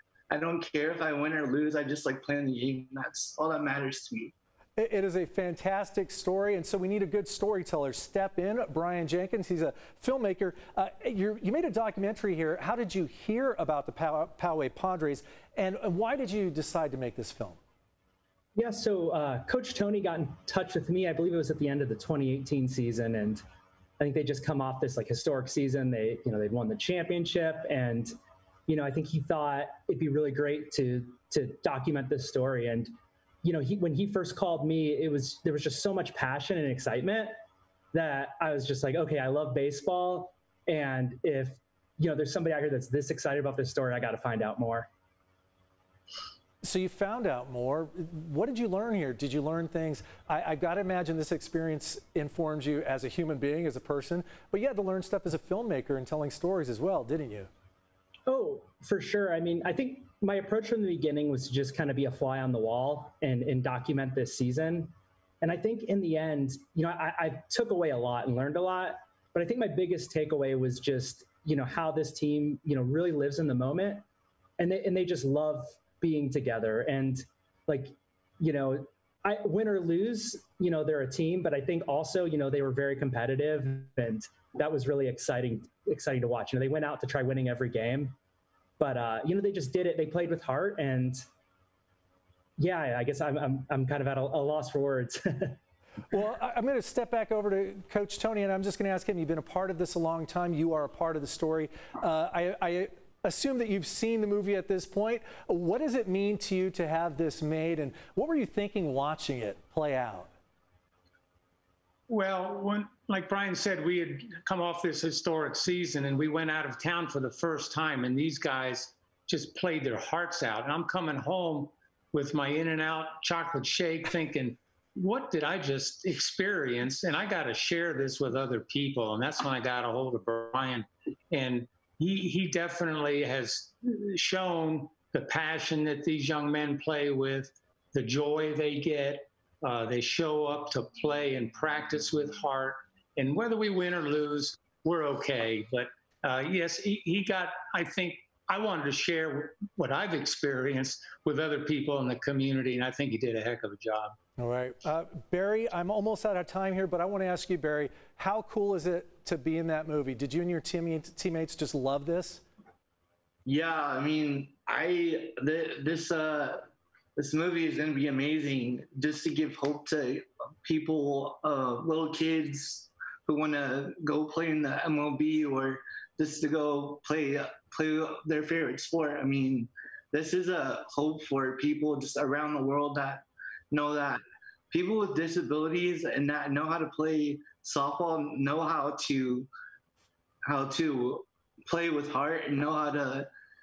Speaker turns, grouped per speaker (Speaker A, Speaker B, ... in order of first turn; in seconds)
Speaker A: 0.3-4.3, 163.4-166.6, 167.2-189.5, 190.4-193.3
Speaker B: 4.8-17.6, 46.6-57.5, 96.1-110.3, 154.4-162.4
Speaker C: 18.5-23.4, 24.0-28.1, 28.7-32.9, 33.4-37.3, 37.9-44.9, 58.2-74.0, 74.6-88.2, 88.8-91.2, 92.6-95.6
Speaker D: 112.1-154.2